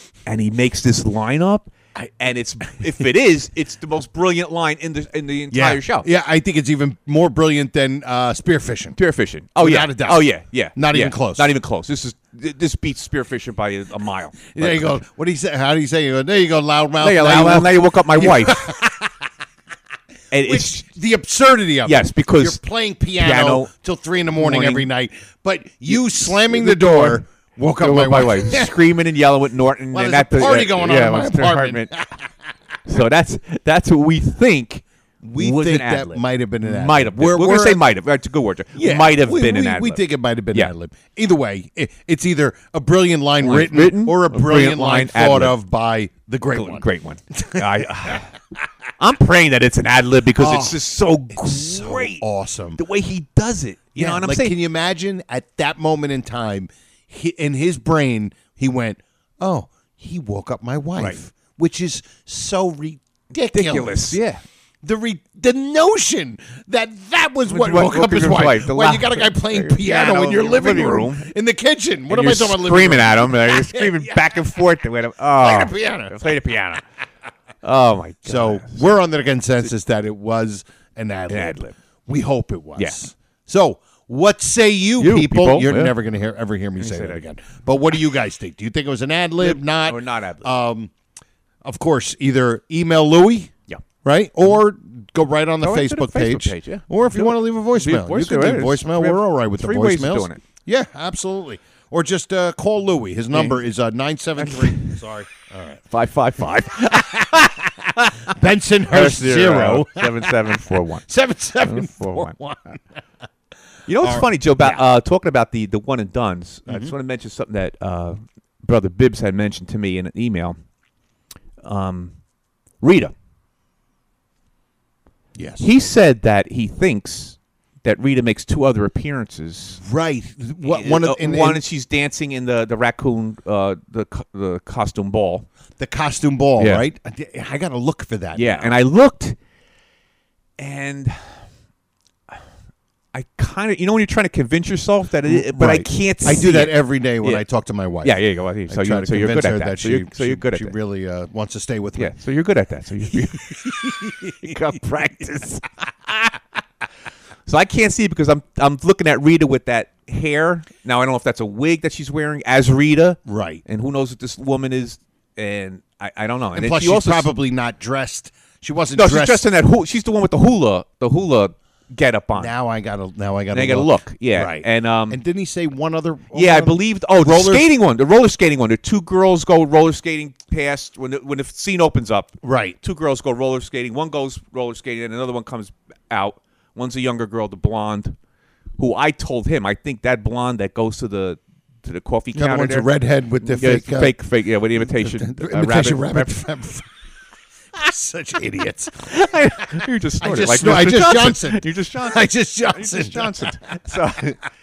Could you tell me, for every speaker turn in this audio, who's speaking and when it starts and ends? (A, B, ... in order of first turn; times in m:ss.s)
0:00.3-0:06.1 A
0:05.5-0:09.0 B
0:09.0-0:15.0 A
0:09.6-0:11.5 B
0:14.6-0:19.1 B
0:17.0-0:18.7 A
0:20.3-0:20.8 A
0:20.4-0:28.9 B
0:21.8-0:22.6 A
0:23.2-0:23.7 A
0:24.4-0:24.9 A
0:25.9-0:27.2 A
0:27.8-0:31.9 A
0:29.9-0:32.3 B
0:32.9-0:34.8 A
0:35.2-0:37.8 B
0:35.4-0:40.7 A
0:38.8-0:46.8 B
0:43.4-0:45.6 A
0:46.5-0:48.3 A
0:47.4-0:48.2 B
0:49.0-0:52.2 A
0:50.4-0:52.8 B
0:52.8-0:54.6 A
0:54.0-1:04.2 B
1:03.5-1:04.4 A
1:04.8-1:14.6 B
1:07.5-1:11.3 A
1:12.1-1:16.8 A
1:15.4-1:16.4 B
1:17.6-1:18.9 A
1:18.2-1:30.9 B
1:21.3-1:21.8 A
1:25.0-1:26.0 A
1:26.8-1:27.2 A
1:29.4-1:30.6 A
1:31.6-1:33.5 B
1:34.0-1:45.8 B
1:35.6-1:40.4 A
1:44.4-1:45.0 A
1:45.9-1:48.2 A
1:46.8-1:47.5 B
1:48.3-1:52.8 B
1:48.9-1:51.1 A
1:51.6-1:52.3 A
1:53.9-2:00.6 A
1:54.0-1:54.8 B
1:56.7-1:56.9 B
2:01.6-2:02.2 A
2:02.8-2:03.1 A
2:05.4-2:05.7 B
2:05.6-2:09.8 A
2:09.8-2:11.6 B
2:10.6-2:15.5 A
2:15.8-2:18.8 B
2:16.6-2:16.8 A
2:18.4-2:19.4 A
2:20.6-2:21.5 A
2:23.1-2:27.4 A
2:25.3-2:32.1 B
2:28.0-2:30.7 A
2:32.0-2:33.5 A
2:33.1-2:35.5 B
2:34.4-2:35.6 A
2:37.5-2:47.3 A
2:43.3-2:43.6 B
2:46.5-2:49.4 B
2:49.0-2:52.5 A
2:52.4-2:57.7 B
2:53.5-2:55.2 A
2:56.3-3:08.2 A
3:02.4-3:02.8 B
3:08.8-3:16.4 A
3:12.3-3:14.2 B
3:14.8-3:16.9 B
3:17.8-3:19.2 B
3:19.0-3:24.4 A
3:19.8-3:23.9 B